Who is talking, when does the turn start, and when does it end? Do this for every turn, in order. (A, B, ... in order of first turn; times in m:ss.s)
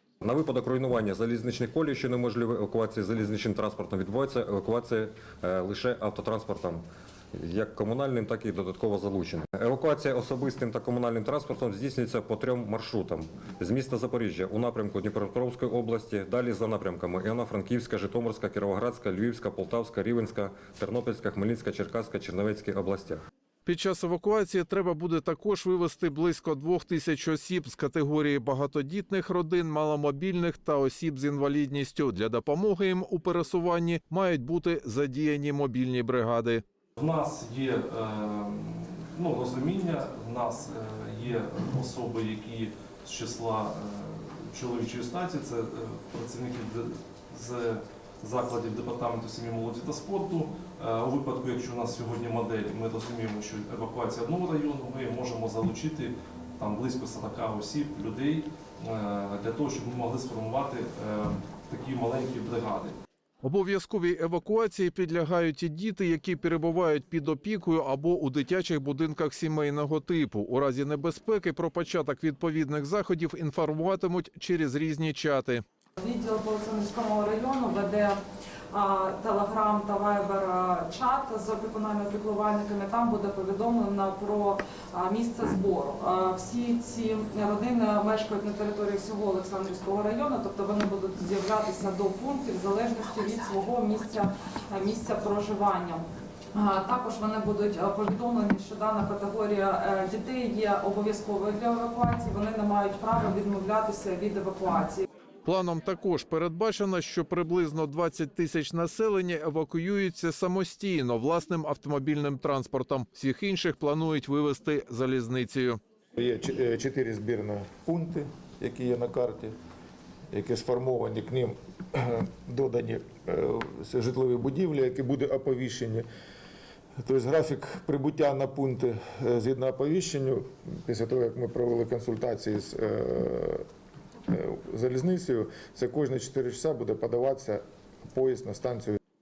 0:00.2-0:06.8 A
0:07.4-0:23.2 A
0:23.6-0:36.6 B
0:37.0-1:03.0 C
1:03.4-1:15.6 B
1:16.0-1:18.2 D
1:18.7-1:36.0 D
1:36.5-1:45.0 D
1:45.4-1:55.8 B
1:56.2-1:59.5 E
2:00.3-2:06.0 E
2:07.0-2:13.6 E
2:14.3-2:19.0 E